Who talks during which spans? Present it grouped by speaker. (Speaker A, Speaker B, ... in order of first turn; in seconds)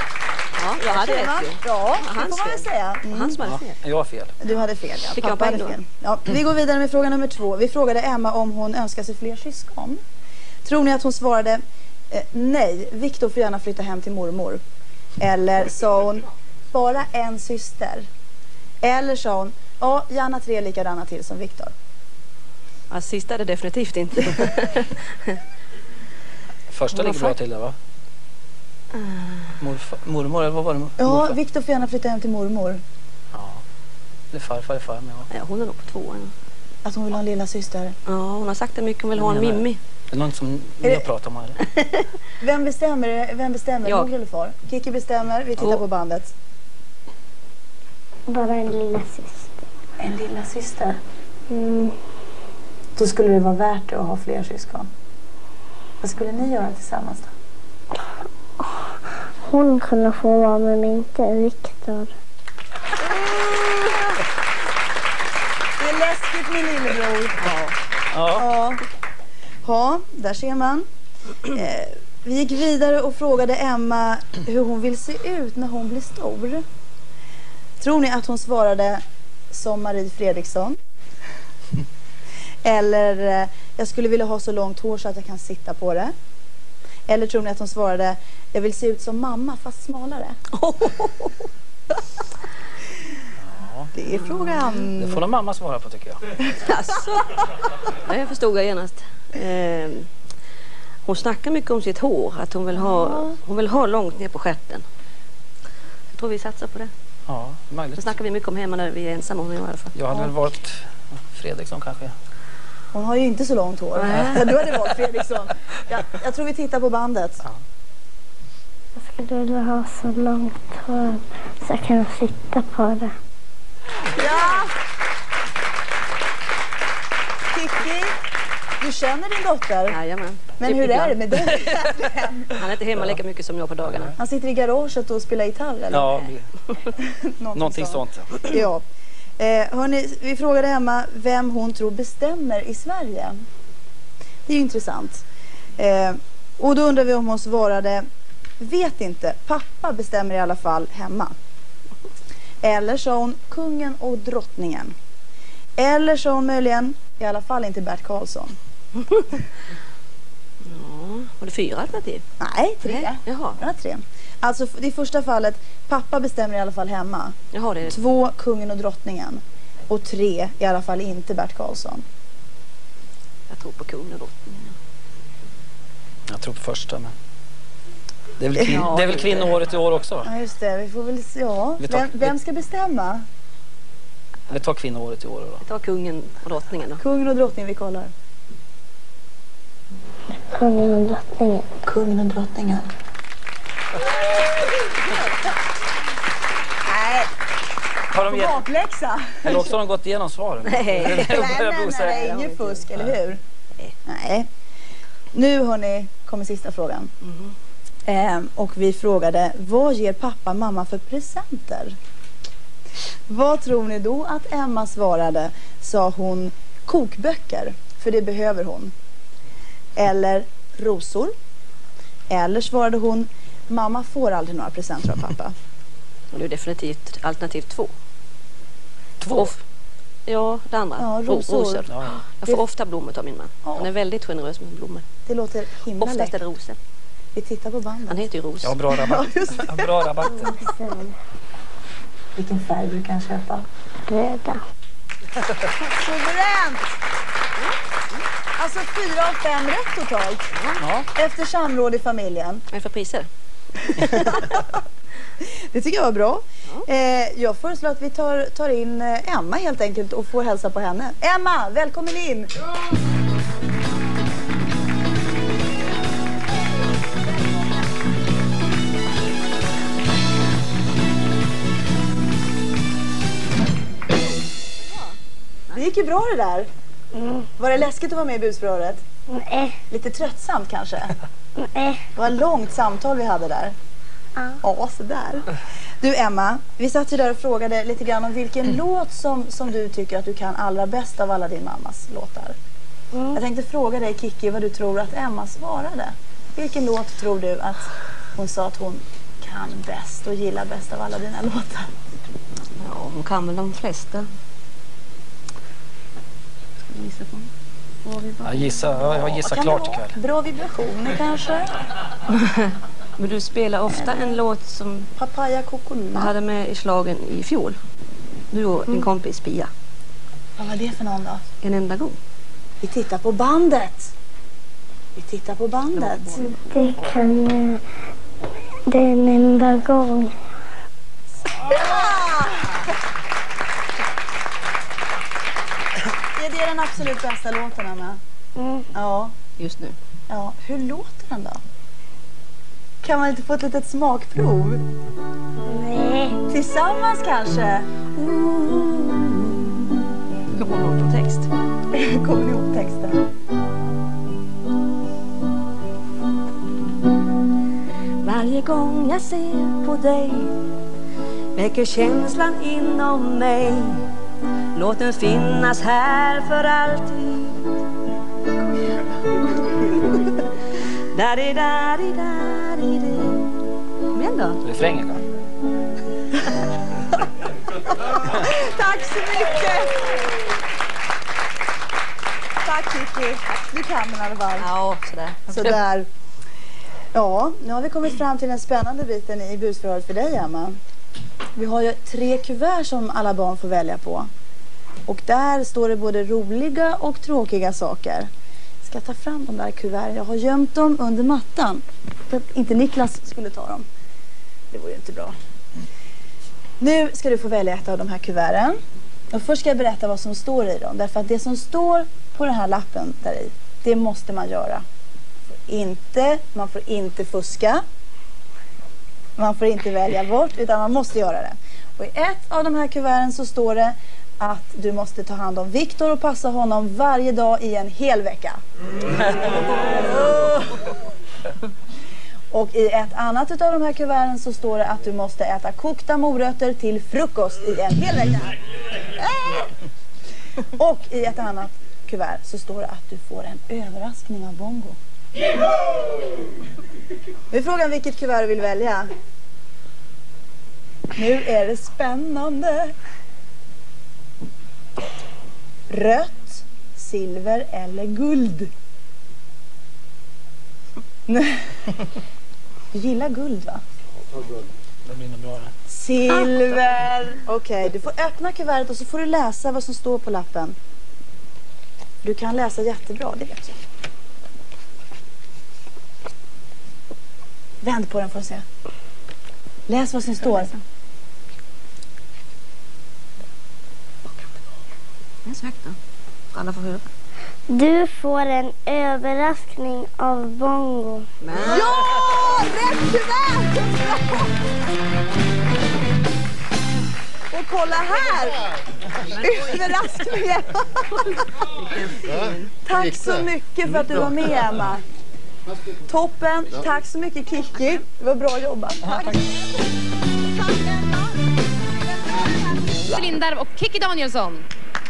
Speaker A: 0.6-3.8, 5.2-5.8, 22.9-25.4, 26.9-27.3, 29.0-29.5, 35.3-36.3, 38.1-39.8, 67.4-67.7, 90.5-91.5, 96.6-100.1, 101.0-104.8, 106.1-106.9, 108.0-109.9, 114.0-114.6, 129.9-131.9, 132.5-134.2, 160.7-162.2, 162.8-163.6, 167.5-167.9, 173.5-174.7, 178.7-179.4, 185.6-187.0, 200.6-203.0, 226.3-227.9, 229.3-229.6, 230.3-235.0, 236.0-236.8, 238.1-238.8, 247.6-248.2, 250.5-250.8, 252.7-253.3, 253.8-254.5, 274.8-275.1, 302.8-304.3, 306.9-307.5, 308.0-309.1, 312.4-315.1, 316.1-317.8, 318.5-319.7, 321.6-322.2, 325.9-326.6, 339.6-339.9, 350.5-351.5, 358.2-360.6, 361.5-364.1, 364.7-367.7, 371.1-373.5, 374.1-374.6, 384.6-385.7, 485.4-486.0, 486.5-487.1, 491.4-492.0, 501.2-502.7
Speaker B: 0.9-3.3, 4.4-10.0, 10.6-14.6, 15.2-18.1, 18.8-21.7, 31.0-32.8, 36.8-37.9, 42.4-46.3, 50.0-51.0, 53.0-54.9, 56.0-57.3, 63.0-64.2, 65.8-67.4, 68.3-68.8, 69.6-70.8, 71.4-76.6, 77.8-80.8, 82.6-86.1, 87.1-90.3, 93.9-95.2, 102.8-103.3, 112.9-117.4, 124.1-124.7, 127.5-128.1, 128.8-130.0, 130.6-132.6, 134.2-136.2, 136.9-138.8, 139.4-143.3, 144.4-145.2, 145.8-148.0, 148.6-151.3, 152.6-154.9, 155.8-158.5, 162.4-172.0, 178.5-178.9, 180.2-183.2, 187.0-188.1, 191.8-192.9, 194.1-194.8, 196.8-197.3, 198.2-199.7, 200.9-203.4, 204.1-204.5, 205.3-207.1, 208.1-211.9, 213.3-218.9, 219.9-221.3, 222.3-225.5, 231.0-231.9, 233.6-233.9, 235.2-236.3, 237.3-238.2, 238.9-239.9, 242.3-243.7, 245.8-246.9, 248.6-250.5, 251.1-252.6, 253.9-254.8, 255.4-262.5, 275.7-276.7, 277.6-279.0, 279.9-281.2, 282.1-283.7, 284.6-285.5, 286.0-292.6, 293.3-301.9, 309.2-311.8, 314.0-314.3, 315.2-316.3, 320.6-321.4, 322.8-324.1, 325.1-326.4, 331.5-332.9, 336.3-338.2, 338.9-339.3, 340.3-341.6, 343.0-344.8, 346.5-349.5, 351.9-353.2, 378.0-380.2, 382.6-384.7, 385.5-386.1, 387.1-390.8, 391.6-394.3, 395.1-398.3, 398.8-403.8, 404.7-405.3, 406.8-408.8, 409.3-414.8, 415.7-417.8, 419.4-428.6, 432.5-438.6, 439.2-439.7, 440.8-445.0, 447.5-449.1, 451.1-452.9, 455.9-458.7, 461.3-461.6, 462.9-463.8, 465.9-470.8, 472.2-473.8, 477.8-478.6, 479.9-480.7, 491.6-494.5, 497.5-498.6, 499.4-501.5, 502.8-505.0, 506.1-509.6
Speaker C: 3.4-4.3, 26.7-27.7, 29.6-31.4, 33.3-33.6, 34.3-35.3, 39.2-41.7, 68.1-68.5, 93.4-93.9, 95.0-96.2, 107.3-108.0, 109.9-112.1, 133.8-134.1, 135.9-136.5, 137.5-138.6, 176.3-177.1, 178.4-180.3, 181.8-182.3, 184.5-185.6, 198.1-198.6, 199.4-202.3, 229.2-229.5, 231.9-232.2, 238.6-240.5, 250.8-251.1, 308.4-310.1, 374.6-375.2, 465.0-465.7
Speaker D: 48.3-49.5, 51.5-52.0, 59.4-62.1, 119.0-123.1, 190.5-191.7, 240.3-241.1, 244.1-244.6, 277.1-277.4, 279.3-279.8, 281.6-282.0, 293.1-293.4, 326.4-327.8, 328.9-330.4, 338.6-338.9, 345.7-346.4, 487.7-491.3